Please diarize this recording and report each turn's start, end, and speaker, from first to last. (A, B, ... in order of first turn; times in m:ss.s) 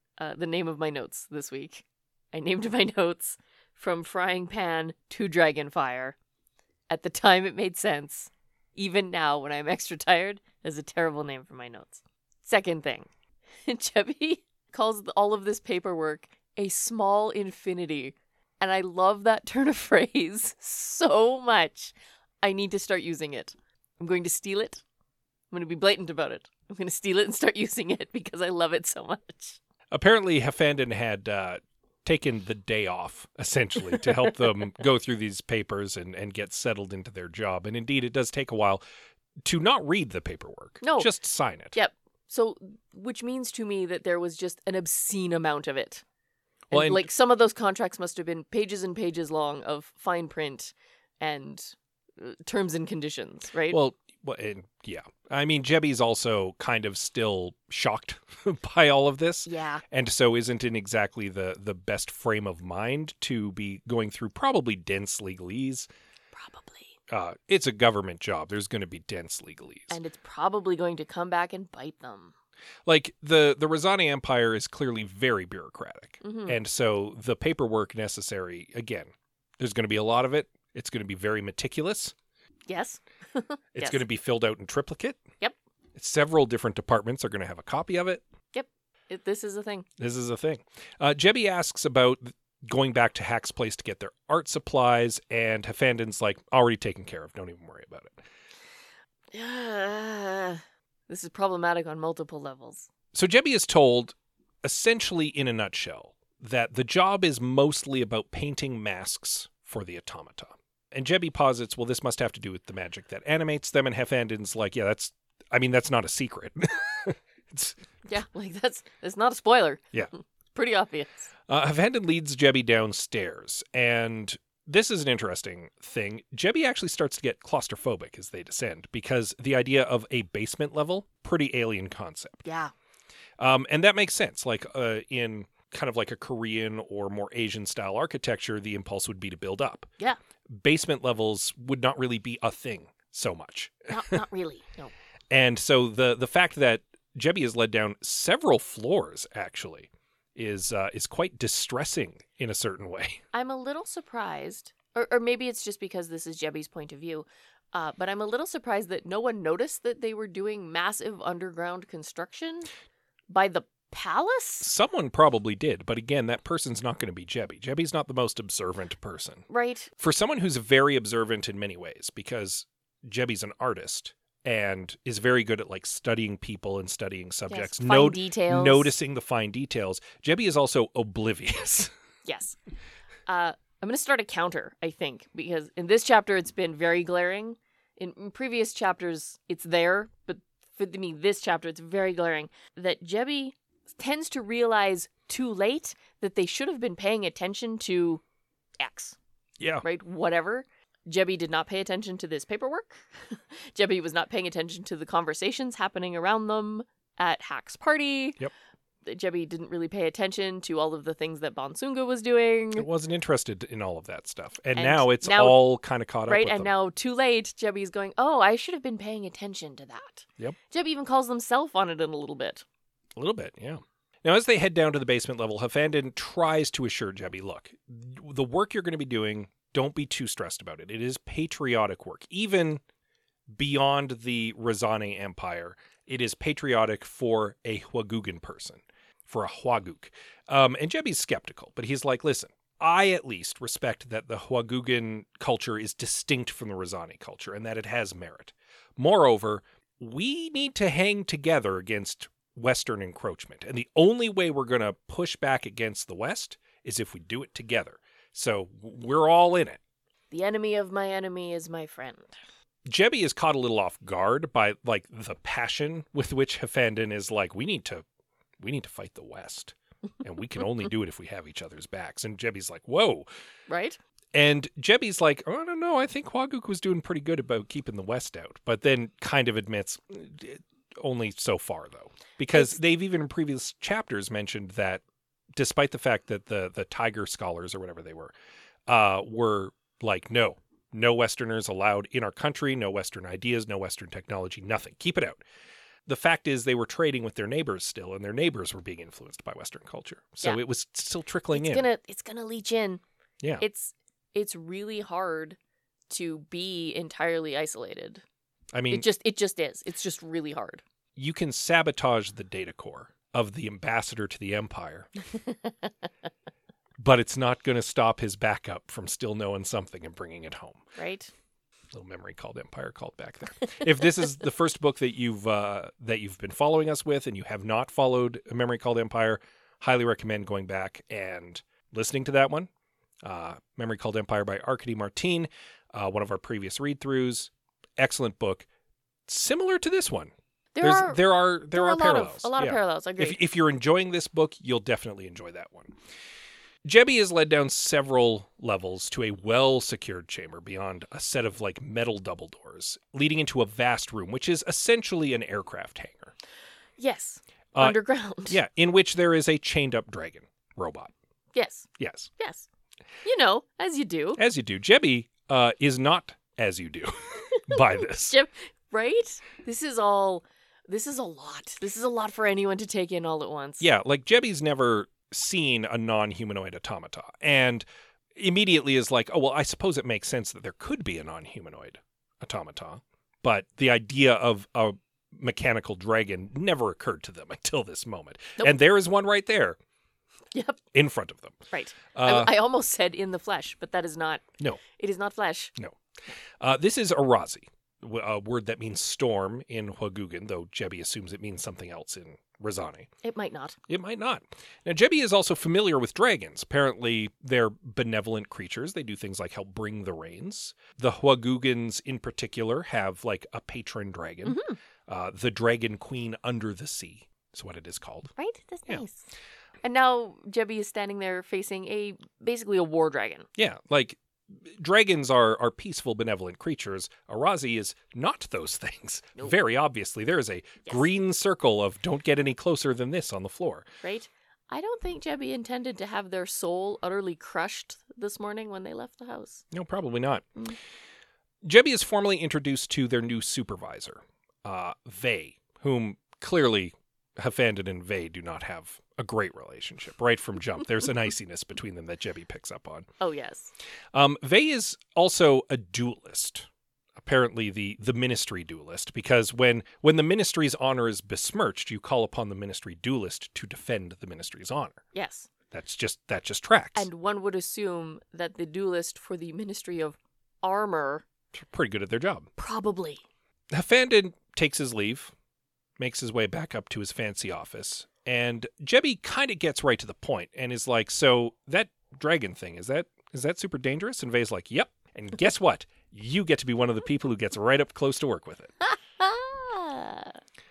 0:00.2-0:06.2 A
0:06.9-0:13.1 A
0:13.7-0:24.8 A
0:25.5-0:29.6 A
0:29.9-0:38.8 B
0:39.4-0:41.8 B
0:40.8-0:41.1 A
0:41.7-0:46.0 A
0:46.7-0:47.1 B
0:46.7-0:53.8 A
0:53.7-1:05.9 B
0:59.5-0:59.8 A
1:06.3-1:07.0 A
1:07.1-1:10.0 B
1:09.9-1:12.3 A
1:12.9-1:22.1 B
1:16.2-1:16.6 A
1:22.7-1:24.0 A
1:23.8-1:25.2 B
1:26.0-1:28.2 B
1:28.5-1:29.9 A
1:30.0-1:38.2 B
1:39.3-1:42.9 A
1:43.1-1:57.8 B
1:58.1-1:59.8 A
2:00.5-2:01.3 A
2:01.5-2:12.4 B
2:12.4-2:12.7 A
2:13.4-2:19.9 B
2:20.5-2:24.2 B
2:23.9-2:24.9 A
2:25.3-2:33.2 B
2:33.3-2:42.7 A
2:43.3-2:44.7 A
2:44.6-2:49.4 B
2:49.5-2:49.9 A
2:50.0-3:01.9 B
2:57.5-2:58.9 A
3:02.2-3:02.6 A
3:03.3-3:18.2 A
3:18.8-3:19.2 A
3:19.6-3:19.8 B
3:19.8-3:28.4 A
3:29.0-3:32.9 A
3:32.8-3:36.7 B
3:34.8-3:35.6 A
3:36.3-3:42.6 A
3:43.2-3:52.8 B
3:53.5-4:19.8 B
4:20.3-4:22.4 A
4:22.9-4:28.0 B
4:28.6-4:33.3 B
4:33.7-4:34.0 A
4:34.3-4:45.0 B
4:45.6-4:48.3 B
4:48.9-4:55.4 B
4:56.1-5:01.9 B
5:01.5-5:03.0 A
5:03.6-5:05.6 A
5:06.1-5:08.2 A
5:08.7-5:09.1 B
5:08.9-5:10.8 A
5:11.2-5:15.1 B
5:17.0-5:20.9 B
5:21.0-5:21.3 A
5:21.9-5:32.7 B
5:33.2-5:38.7 B
5:39.3-5:46.0 B
5:40.8-5:43.4 A
5:46.8-5:56.3 B
5:57.0-5:58.6 A
5:57.8-6:01.1 B
6:01.5-6:01.9 A
6:02.0-6:02.3 B
6:02.4-6:02.7 A
6:03.2-6:04.4 A
6:04.4-6:08.4 B
6:07.7-6:13.8 A
6:13.8-6:17.8 B
6:18.4-6:29.8 B
6:30.5-6:30.8 A
6:30.9-6:32.5 B
6:31.7-6:35.7 A
6:36.6-6:43.1 B
6:43.2-6:43.8 A
6:43.9-6:58.3 B
6:54.4-6:54.8 A
6:58.4-6:59.3 A
6:59.8-7:03.5 A
7:03.6-7:13.9 B
7:14.0-7:19.6 A
7:19.7-7:20.5 B
7:21.6-7:33.1 B
7:33.2-7:33.7 A
7:34.1-7:45.0 B
7:45.1-7:45.5 A
7:45.7-7:47.1 B
7:47.0-7:51.2 A
7:51.5-7:52.5 B
7:52.6-7:53.2 A
7:53.7-7:55.3 B
7:56.0-8:08.7 B
8:08.9-8:10.4 A